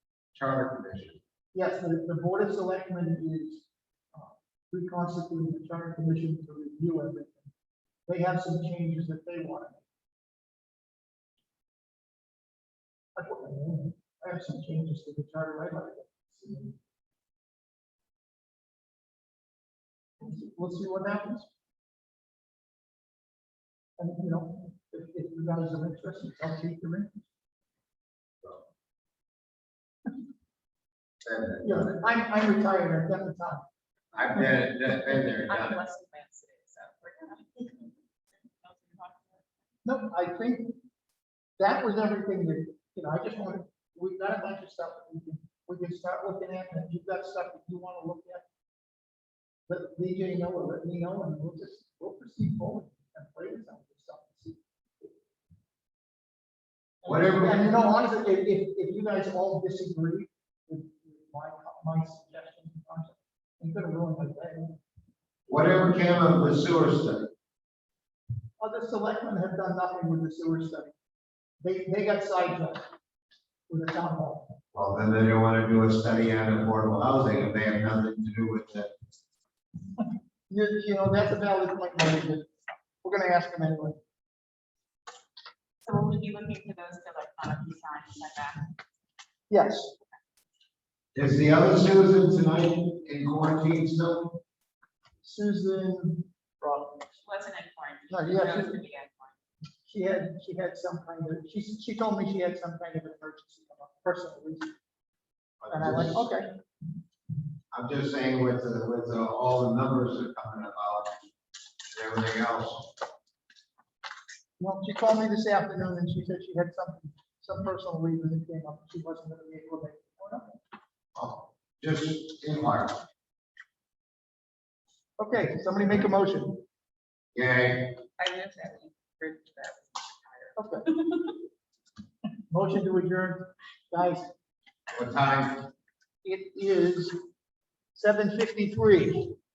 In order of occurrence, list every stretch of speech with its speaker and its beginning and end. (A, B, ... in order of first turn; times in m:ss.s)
0:00.4-0:01.2 A
0:01.5-0:07.5 B
0:08.1-0:09.8 B
0:13.2-0:16.7 B
0:20.2-0:21.5 B
0:24.0-0:27.2 B
0:31.2-0:31.9 A
0:31.6-0:33.7 B
0:34.1-0:35.8 A
0:34.8-0:39.4 C
0:39.8-0:40.8 B
0:41.6-0:48.5 B
0:49.7-0:55.1 B
0:57.0-1:04.8 B
0:57.1-0:57.6 A
1:05.5-1:07.3 A
1:08.6-1:10.9 B
1:11.6-1:12.8 B
1:13.7-1:14.6 B
1:14.7-1:18.9 A
1:20.5-1:24.0 B
1:25.8-1:28.7 C
1:29.5-1:29.9 B
1:31.2-1:34.4 A
1:35.2-1:37.1 B
1:37.2-1:39.4 C
1:38.1-1:38.8 B
1:39.8-1:44.8 B
1:45.6-1:46.2 A
1:45.7-1:46.6 B
1:47.7-1:51.3 A
1:51.9-1:52.9 A
1:54.6-2:00.6 B
2:01.2-2:03.0 A
2:05.2-2:06.6 B
2:07.3-2:08.0 A
2:08.2-2:11.3 C
2:10.6-2:10.9 B
2:12.5-2:14.3 B
2:14.9-2:15.7 A
2:16.2-2:17.2 B
2:18.0-2:19.4 B